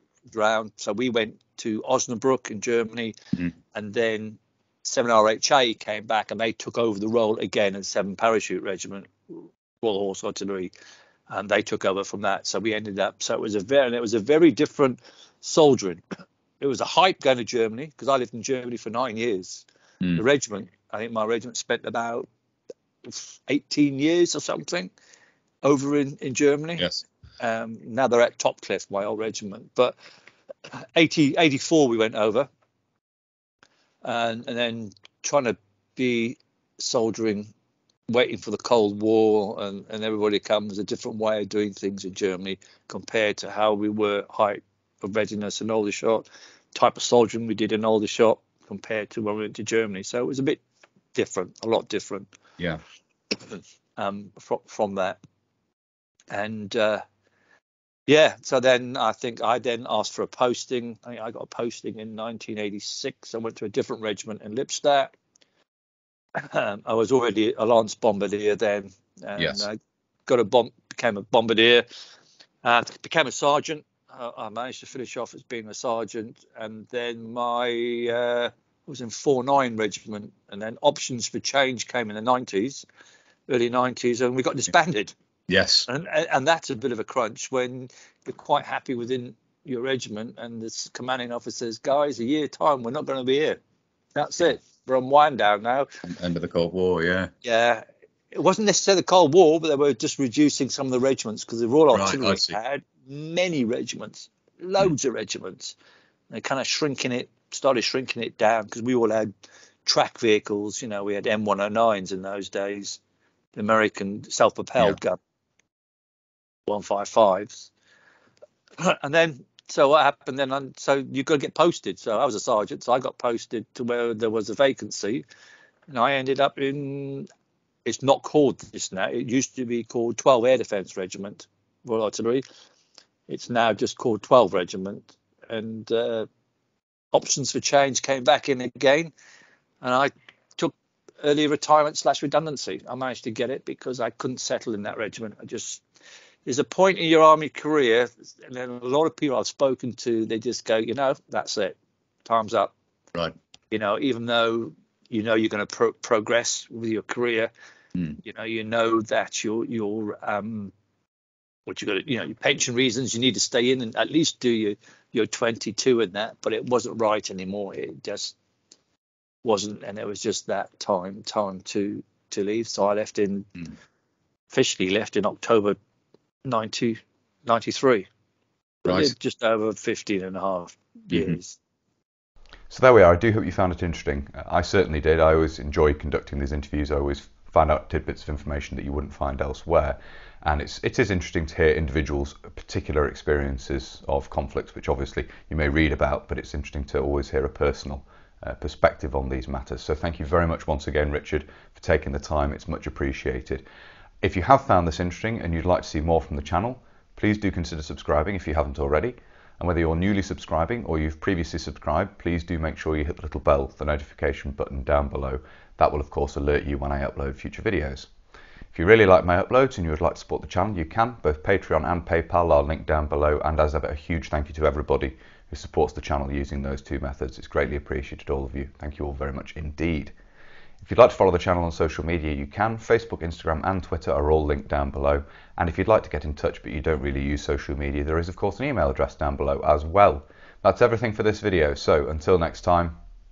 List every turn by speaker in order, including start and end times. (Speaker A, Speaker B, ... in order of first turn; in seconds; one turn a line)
Speaker A: 0.3-3.2
Speaker A: 3.7-10.7
Speaker A: 11.3-16.0
Speaker A: 16.6-22.3
Speaker A: 23.1-24.9
Speaker A: 25.6-30.0
Speaker A: 30.7-32.5
Speaker A: 34.0-37.5
Speaker A: 38.1-50.6
Speaker A: 51.1-52.3
Speaker A: 53.5-55.2
Speaker A: 56.3-57.0
Speaker A: 58.1-65.1
Speaker A: 66.3-71.8
Speaker B: 69.4-69.7
Speaker A: 72.6-82.8
Speaker A: 83.5-85.1
Speaker B: 85.5-85.9
Speaker A: 85.9-93.6
Speaker A: 94.2-95.9
Speaker B: 96.1-97.3
Speaker A: 97.4-105.8
Speaker B: 101.9-102.6
Speaker A: 106.3-109.3
Speaker A: 109.8-113.0
Speaker A: 113.5-115.2
Speaker A: 116.7-117.7
Speaker A: 118.8-125.2
Speaker A: 125.9-127.3
Speaker A: 127.9-132.4
Speaker A: 133.3-136.3
Speaker A: 137.1-139.1
Speaker A: 139.8-145.8
Speaker A: 146.5-152.7
Speaker A: 153.7-157.5
Speaker A: 158.2-160.7
Speaker A: 161.7-168.3
Speaker A: 169.4-173.6
Speaker A: 174.5-175.8
Speaker A: 176.4-178.1
Speaker A: 178.8-181.6
Speaker B: 178.9-179.1
Speaker B: 181.1-181.4
Speaker C: 182.7-203.7
Speaker C: 204.2-218.1
Speaker C: 218.7-230.2
Speaker C: 230.8-243.0